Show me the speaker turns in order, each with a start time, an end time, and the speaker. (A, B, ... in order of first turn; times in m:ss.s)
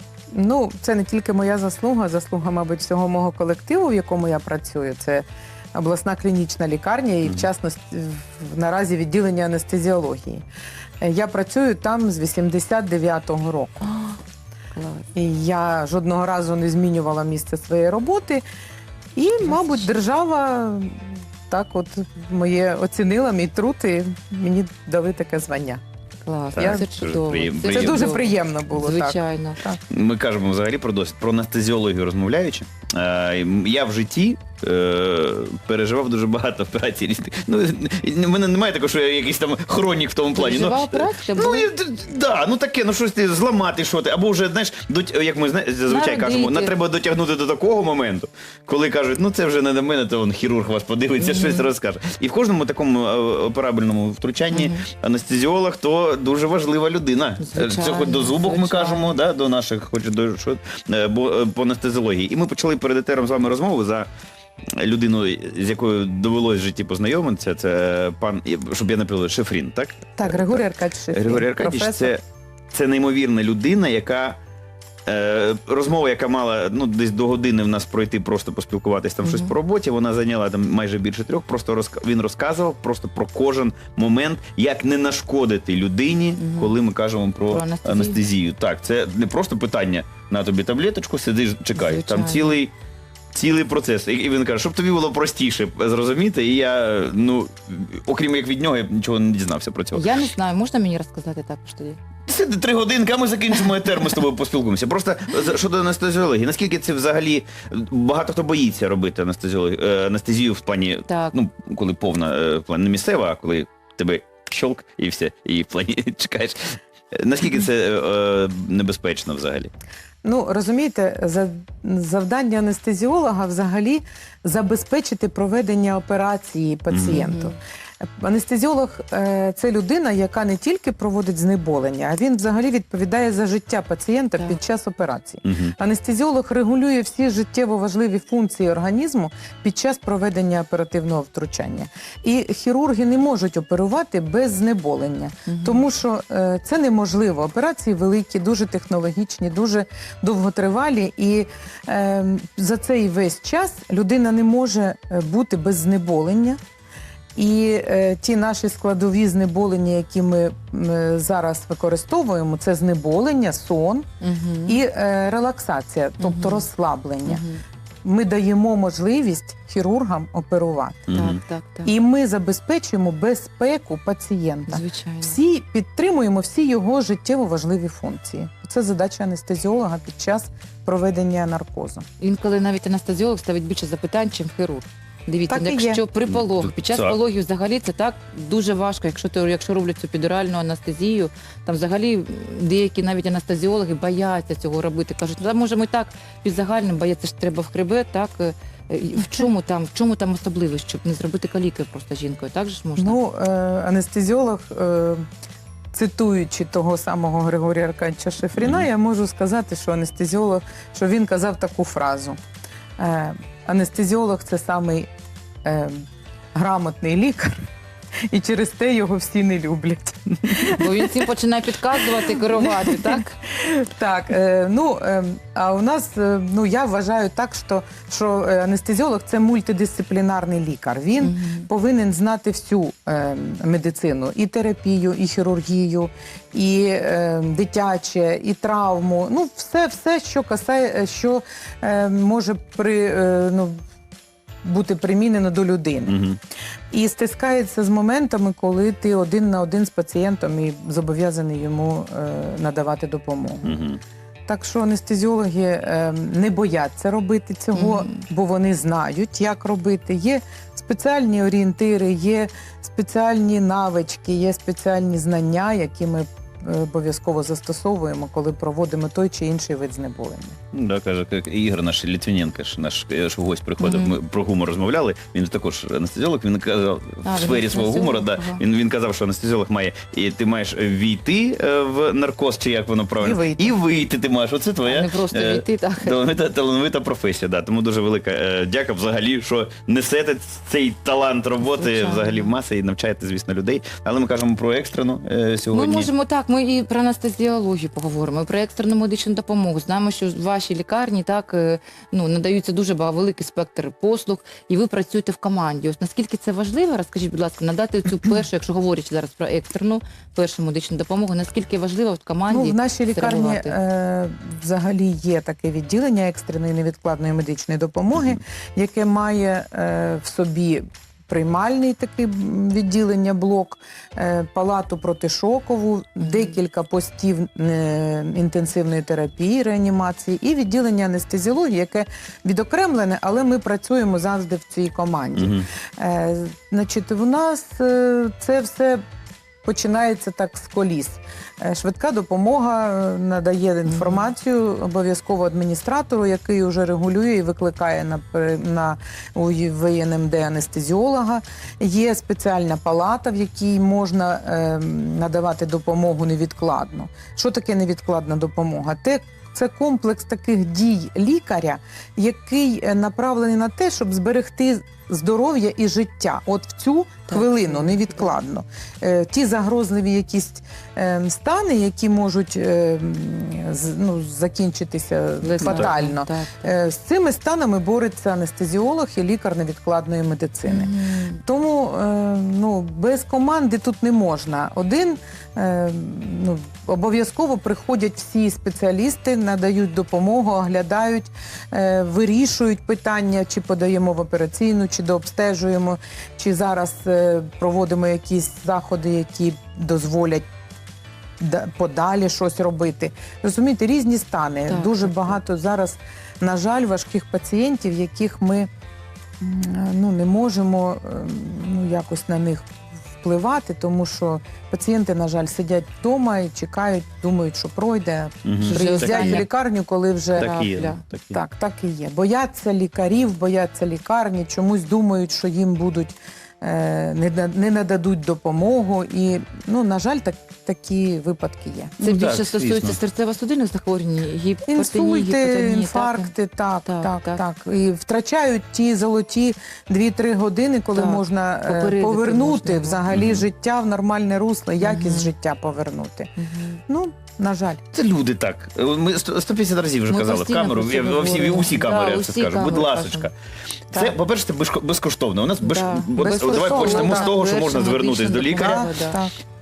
0:00.3-0:10.4 A
0:11.0-0:13.9 A
0:13.8-0:14.2 B
0:14.7-0:15.1 B
0:15.1-0:18.4 A
0:19.2-0:25.8 A
0:19.4-0:20.0 B
0:26.2-0:29.6 B
0:26.5-0:28.2 C
0:26.6-0:26.8 A
0:27.7-0:29.8 A
0:29.9-1:04.1 C
0:40.3-0:41.7 B
0:45.8-0:46.8 B
0:51.2-0:51.7 B
0:54.5-0:54.8 B
0:57.4-0:59.2 B
1:04.8-1:14.4 C
1:10.2-1:12.1 A
1:15.0-1:32.7 C
1:19.2-1:19.5 B
1:26.4-1:26.8 B
1:27.5-1:28.2 B
1:31.7-1:32.6 B
1:33.3-1:40.0 C
1:39.9-1:42.0 B
1:42.3-1:59.7 C
1:51.1-1:51.3 B
2:00.2-2:36.6 A
2:06.9-2:07.3 C
2:07.1-2:07.6 B
2:15.4-2:15.7 C
2:25.5-2:25.8 B
2:37.3-2:44.1 A
2:44.2-2:44.8 B
2:44.7-2:47.4 A
2:46.2-2:46.7 B
2:47.2-2:47.6 B
2:48.0-2:51.2 A
2:51.1-2:51.9 B
2:51.1-2:51.4 C
2:51.8-3:02.0 A
2:54.7-2:55.4 B
3:02.2-3:23.2 B
3:05.5-3:06.0 A
3:06.3-3:07.2 C
3:23.0-3:25.2 A
3:25.9-3:32.4 A
3:28.6-3:28.9 C
3:33.0-3:35.1 A
3:35.6-3:37.7 A
3:38.3-3:41.3 A
3:40.8-3:43.4 B
3:41.9-4:03.8 A
3:51.2-3:51.7 B
4:04.6-4:06.2 A
4:06.0-4:06.4 C
4:06.9-4:13.8 A
4:13.6-4:14.0 C
4:14.5-4:30.6 A
4:17.7-4:18.2 B
4:30.7-4:56.1 C
4:33.8-4:34.2 B
4:37.2-4:38.6 B
4:43.2-4:43.8 A
4:44.8-4:46.2 B
4:51.6-4:52.5 B
4:55.7-5:13.7 B
5:12.5-5:39.0 A
5:18.1-5:18.4 C
5:26.2-5:26.6 B
5:35.3-5:35.7 C
5:39.6-6:20.9 A
5:43.9-5:44.2 B
6:07.3-6:08.3 B
6:15.4-6:16.7 B
6:15.6-6:15.9 C
6:20.6-6:21.4 B
6:21.4-6:40.4 A
6:41.4-6:48.7 A
6:44.7-6:45.4 B
6:49.4-6:52.7 A
6:53.2-7:00.5 A
6:58.4-6:59.4 C
6:58.6-6:59.5 B
7:00.3-7:01.0 B
7:00.4-7:01.4 C
7:01.3-7:11.9 A
7:12.0-7:16.3 B
7:12.0-7:13.0 C
7:14.7-7:26.3 A
7:16.8-7:17.4 B
7:20.9-7:23.0 B
7:23.1-7:23.4 C
7:24.8-7:25.3 B
7:26.4-7:26.8 B
7:26.9-7:27.8 A
7:27.9-7:33.3 C
7:30.1-7:33.3 B
7:33.9-7:38.9 C
7:35.6-7:39.2 B
7:36.2-7:37.3 A
7:38.6-7:39.3 A